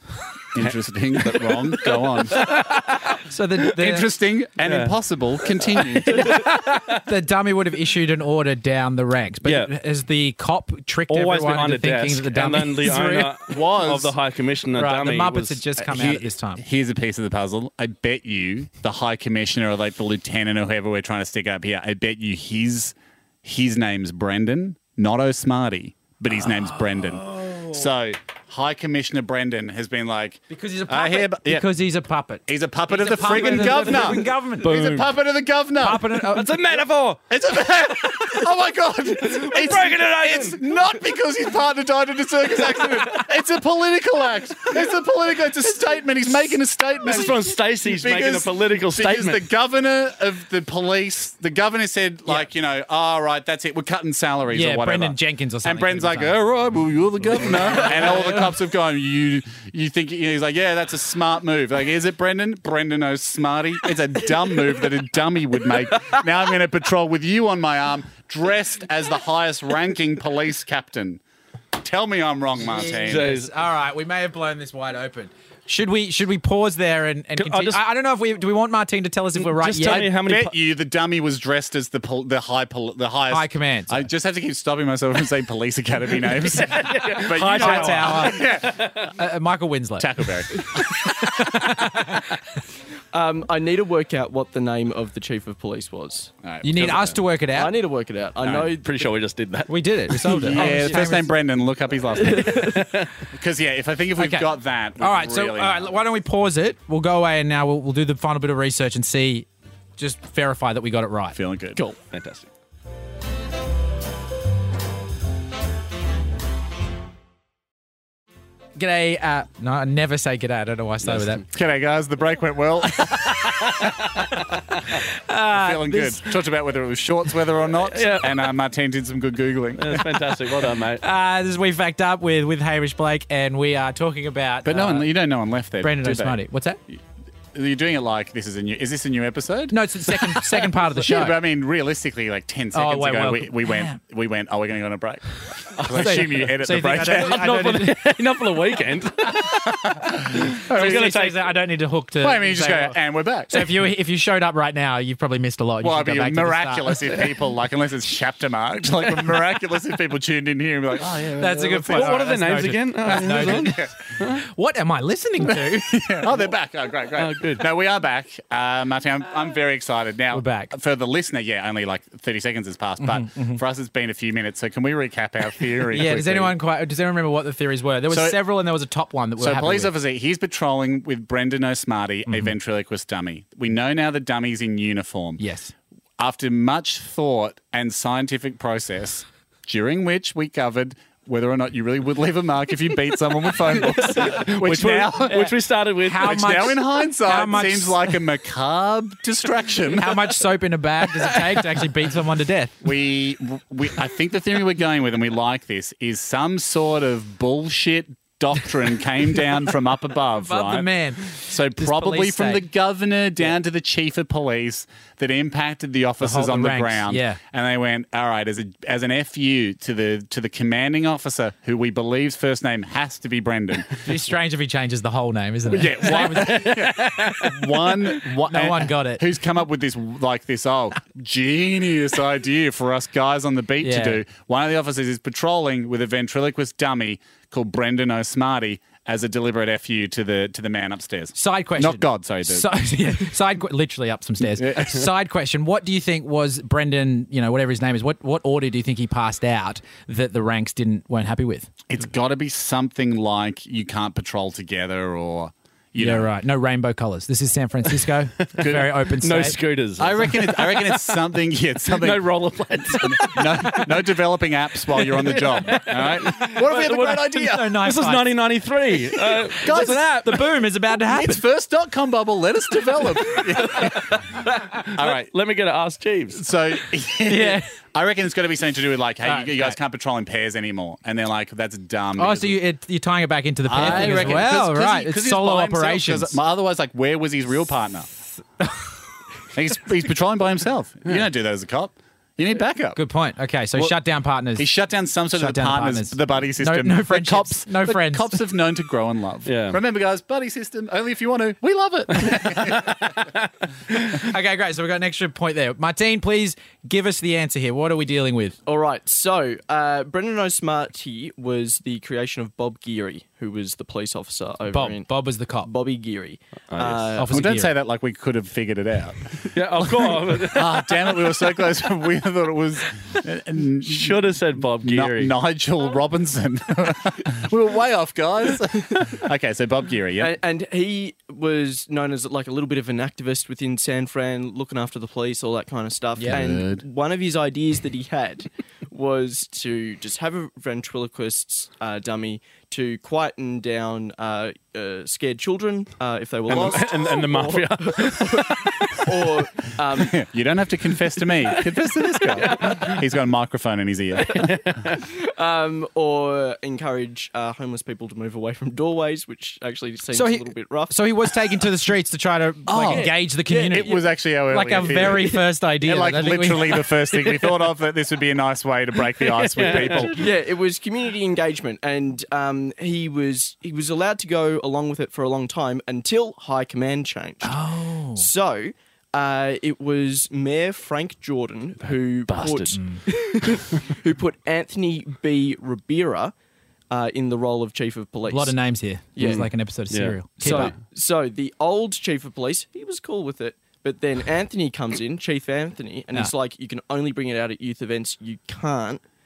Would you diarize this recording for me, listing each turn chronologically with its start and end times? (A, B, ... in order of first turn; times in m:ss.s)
0:00.6-0:02.4 A
0:00.6-0:03.1 B
0:03.1-0:04.1 C
0:03.8-0:06.5 A
0:04.6-0:05.0 B
0:06.1-0:13.3 C
0:06.2-0:07.0 B
0:09.4-0:09.7 B
0:11.1-0:15.7 B
0:13.6-0:14.1 A
0:14.8-0:16.6 C
0:15.9-0:31.7 A
0:26.4-0:27.8 C
0:30.5-0:34.7 C
0:32.5-0:36.2 A
0:34.6-0:35.2 B
0:35.8-0:37.2 C
0:36.3-0:37.1 B
0:37.3-1:11.2 A
0:39.2-0:40.6 B
0:47.0-0:49.4 B
0:54.5-0:56.4 C
0:57.8-0:58.4 C
1:11.8-1:13.3 A
1:12.7-1:20.1 C
1:13.0-1:13.5 B
1:17.4-1:17.8 B
1:19.4-1:20.5 B
1:19.8-1:29.1 A
1:23.3-1:24.1 C
1:26.5-1:29.1 B
1:27.3-1:28.5 C
1:29.1-1:32.3 C
1:30.0-1:31.5 A
1:33.1-1:36.3 D
1:36.4-1:37.2 A
1:36.6-1:37.7 C
1:37.5-1:39.2 D
1:38.4-1:40.7 B
1:39.7-1:41.3 C
1:40.2-1:46.0 A
1:40.6-1:41.0 D
1:42.2-1:42.8 D
1:42.5-1:43.1 B
1:44.2-1:51.4 C
1:51.3-1:51.8 A
1:52.1-1:52.5 B
1:58.8-2:01.4 C
2:01.0-2:01.4 B
2:01.5-2:04.4 A
2:05.3-2:06.2 C
2:05.5-2:10.3 A
2:07.8-2:08.5 B
2:09.8-2:11.0 B
2:11.0-2:15.1 C
2:14.6-2:16.4 A
2:15.8-2:16.8 C
2:17.5-2:19.8 A
2:19.7-2:21.4 C
2:20.4-2:27.4 A
2:22.7-2:24.0 C
2:25.9-2:28.2 C
2:27.2-2:31.5 B
2:29.8-2:31.1 A
2:30.5-2:33.0 C
2:32.2-2:33.7 A
2:33.5-2:37.0 C
2:35.8-2:42.3 A
2:41.4-2:46.2 C
2:41.8-2:44.4 B
2:43.1-2:43.9 A
2:45.4-2:56.6 A
2:47.2-2:47.7 B
2:50.3-2:50.7 C
2:53.0-2:53.6 C
2:55.9-2:59.9 C
2:58.1-2:58.4 A
2:59.4-3:05.4 A
3:02.3-3:02.5 C
3:05.4-3:05.7 C
3:06.2-3:15.6 A
3:14.2-3:16.5 B
3:16.0-3:18.1 C
3:16.2-3:20.3 A
3:20.0-3:22.8 C
3:22.8-3:44.2 A
3:30.4-3:32.6 C
3:36.2-3:37.4 C
3:44.0-3:47.5 C
3:45.7-4:02.7 A
3:46.2-3:47.5 B
3:48.2-3:49.2 C
3:53.8-3:54.2 C
4:01.4-4:11.7 C
4:04.4-4:05.1 A
4:11.9-4:16.3 A
4:16.0-4:19.6 C
4:18.6-4:18.9 A
4:18.6-4:21.2 B
4:20.0-4:22.3 A
4:21.9-4:23.9 B
4:23.0-4:27.7 A
4:25.0-4:30.3 B
4:27.4-4:28.3 C
4:29.2-4:31.4 C
4:29.6-4:30.2 A
4:31.1-4:34.2 A
4:34.7-4:36.5 B
4:34.9-4:35.3 A
4:36.3-4:42.6 A
4:37.2-4:37.7 C
4:39.2-4:39.8 C
4:42.2-4:46.4 C
4:43.7-4:48.1 A
4:49.5-4:53.0 A
4:53.0-4:54.7 C
4:54.6-5:03.2 A
4:55.3-4:58.4 C
4:59.5-4:59.8 B
5:04.1-5:08.6 C
5:08.7-5:17.4 D
5:14.7-5:15.7 C
5:16.7-5:17.2 B
5:17.2-5:17.7 C
5:17.3-5:30.3 A
5:19.5-5:21.1 B
5:23.9-5:25.4 B
5:30.2-5:50.2 D
5:36.3-5:36.8 A
5:46.5-5:49.2 B
5:46.5-5:46.8 A
5:49.9-5:54.6 A
5:51.6-5:53.0 B
5:54.3-5:55.0 B
5:54.9-6:01.0 D
6:00.1-6:06.9 C
6:02.7-6:10.2 A
6:02.9-6:04.0 D
6:05.0-6:05.3 D
6:09.2-6:10.2 B
6:09.6-6:26.3 D
6:17.4-6:18.3 C
6:22.3-6:22.8 B
6:22.7-6:23.0 C
6:26.9-6:28.6 D
6:28.3-6:30.7 C
6:29.2-6:29.5 D
6:29.2-6:30.8 B
6:30.4-6:39.0 D